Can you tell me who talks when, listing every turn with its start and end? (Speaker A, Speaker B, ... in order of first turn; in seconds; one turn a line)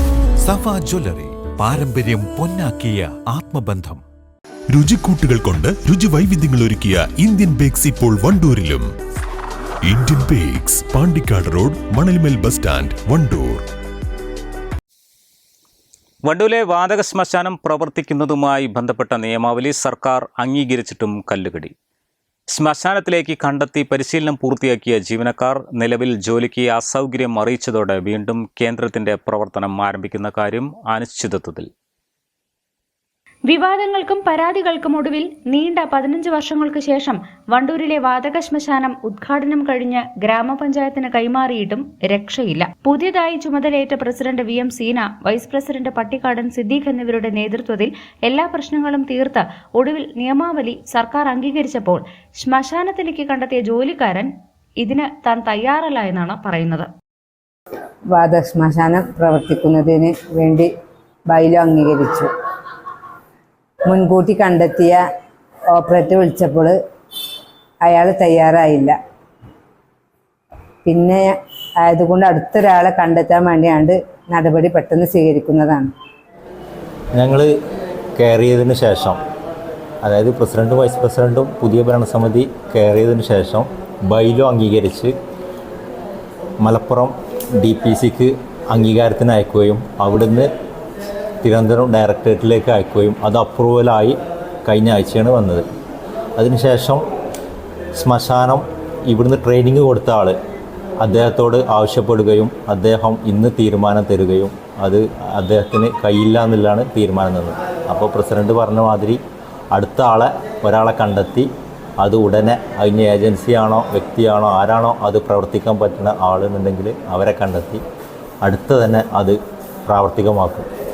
Speaker A: 0.5-4.0
Speaker B: 4.7-8.8
Speaker B: 9.8-13.6
Speaker C: 16.2-21.7
Speaker C: 22.5-31.7
Speaker D: 33.5-56.9
Speaker E: 58.1-60.7
Speaker E: 61.3-62.3
Speaker E: 63.9-65.0
Speaker E: 65.7-66.8
Speaker E: 67.8-68.9
Speaker E: 70.8-75.9
Speaker F: 77.2-77.5
Speaker F: 78.2-79.2
Speaker F: 80.0-85.1
Speaker F: 86.6-90.5
Speaker F: 91.4-95.6
Speaker F: 96.4-97.0
Speaker F: 97.9-100.3
Speaker F: 101.0-109.2
Speaker F: 109.7-111.5
Speaker F: 112.0-117.8
Speaker F: 118.4-120.7